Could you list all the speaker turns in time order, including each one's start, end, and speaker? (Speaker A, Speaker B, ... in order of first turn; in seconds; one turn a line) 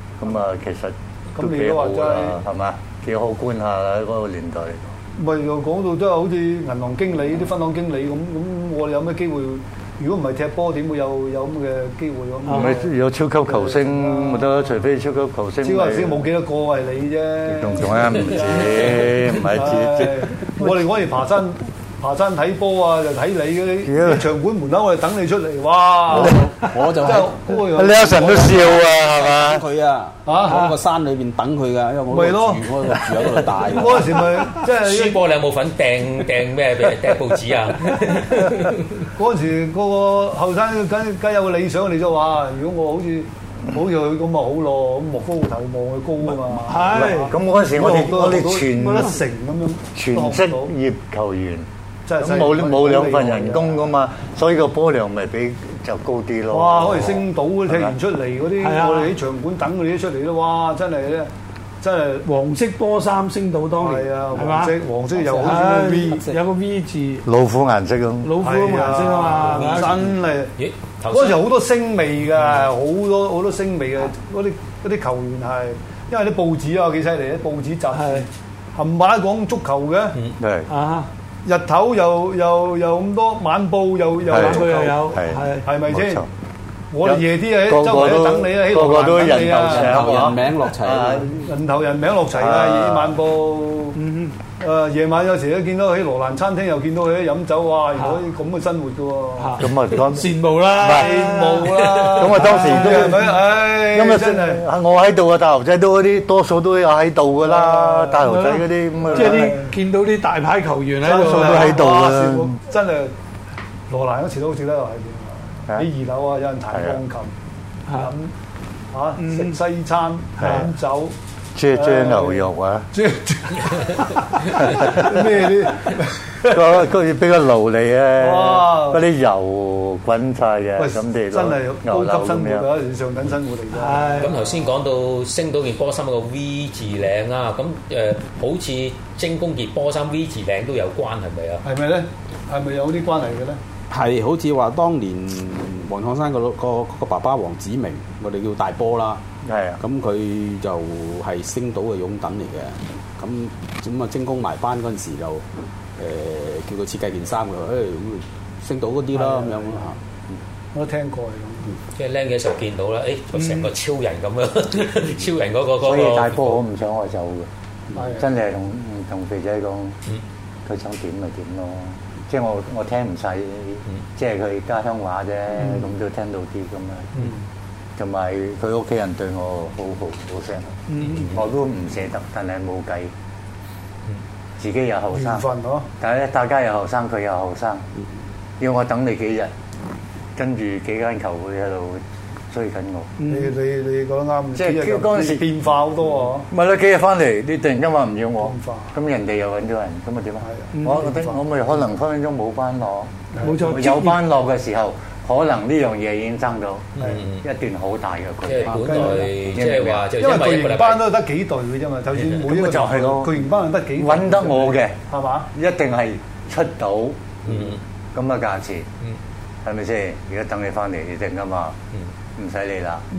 Speaker A: 0.2-4.9
Speaker B: 1.4-2.4
Speaker B: 5.2-12.9
Speaker A: 12.5-16.3
Speaker B: 13.4-14.8
Speaker B: 15.6-26.5
Speaker A: 17.4-20.8
Speaker A: 23.8-24.3
Speaker C: 26.1-27.6
Speaker A: 26.1-26.4
Speaker B: 27.0-28.6
Speaker A: 27.7-29.6
Speaker C: 28.5-34.2
Speaker B: 30.2-30.7
Speaker B: 32.1-32.8
Speaker B: 33.6-35.2
Speaker D: 34.6-38.8
Speaker B: 39.1-50.7
Speaker E: 46.5-47.3
Speaker A: 46.9-49.1
Speaker E: 48.8-49.1
Speaker A: 49.9-51.6
Speaker B: 52.0-53.9
Speaker A: 52.2-57.9
Speaker B: 56.5-61.3
Speaker E: 58.6-59.1
Speaker B: 61.8-62.3
Speaker E: 62.2-64.8
Speaker B: 63.8-66.3
Speaker C: 65.2-65.5
Speaker E: 65.3-67.2
Speaker C: 66.1-66.4
Speaker A: 67.2-68.3
Speaker E: 68.2-69.9
Speaker B: 68.4-70.5
Speaker D: 69.3-71.4
Speaker B: 71.1-80.2
Speaker E: 77.9-78.2
Speaker A: 80.4-80.7
Speaker E: 80.7-81.1
Speaker B: 81.4-85.0
Speaker A: 84.3-86.3
Speaker E: 84.3-85.6
Speaker B: 85.6-86.2
Speaker B: 86.9-90.1
Speaker A: 87.0-91.3
Speaker C: 89.7-91.4
Speaker B: 91.3-94.0
Speaker A: 92.3-93.2
Speaker E: 94.0-94.3
Speaker B: 94.6-99.6
Speaker E: 99.4-103.1
Speaker A: 99.6-101.2
Speaker B: 100.9-104.6
Speaker A: 102.1-109.6
Speaker B: 107.5-108.2
Speaker E: 108.2-111.8
Speaker B: 109.1-109.7
Speaker B: 111.0-113.1
Speaker A: 111.1-112.5
Speaker B: 113.9-117.3
Speaker A: 116.7-117.0
Speaker B: 118.0-118.3
Speaker B: 118.9-121.1
Speaker E: 119.2-119.5
Speaker A: 120.4-120.7
Speaker E: 120.4-120.7
Speaker A: 121.5-122.9
Speaker B: 121.7-126.8
Speaker A: 126.5-132.7
Speaker B: 128.2-129.0
Speaker B: 130.8-134.5
Speaker E: 133.7-134.3
Speaker D: 134.2-141.6
Speaker B: 141.6-143.6
Speaker C: 143.9-149.2
Speaker A: 149.4-149.8
Speaker C: 149.8-155.4
Speaker C: 156.0-160.4
Speaker B: 159.3-159.8
Speaker B: 160.7-161.8
Speaker D: 161.9-166.6
Speaker E: 163.4-163.7
Speaker A: 165.8-167.5
Speaker B: 167.9-168.3
Speaker A: 168.2-170.0
Speaker A: 170.7-177.1
Speaker A: 178.0-183.1
Speaker E: 180.9-181.2
Speaker D: 181.0-181.4
Speaker A: 184.6-185.4
Speaker B: 185.1-185.9
Speaker A: 186.0-187.8
Speaker A: 188.6-189.5
Speaker A: 190.3-193.1
Speaker E: 193.2-193.5
Speaker B: 193.3-196.5
Speaker A: 194.5-195.5
Speaker A: 196.5-210.1
Speaker B: 198.4-199.0
Speaker B: 200.4-201.4
Speaker B: 203.3-203.7
Speaker E: 203.4-204.2
Speaker D: 207.0-207.4
Speaker B: 207.0-207.2
Speaker D: 208.4-211.0
Speaker B: 208.7-209.3
Speaker B: 210.2-215.5
Speaker D: 212.1-212.4
Speaker A: 212.4-213.3
Speaker A: 213.9-215.0
Speaker A: 215.5-217.5
Speaker D: 217.4-217.8
Speaker A: 218.1-218.9
Speaker A: 219.6-221.7
Speaker A: 222.4-223.0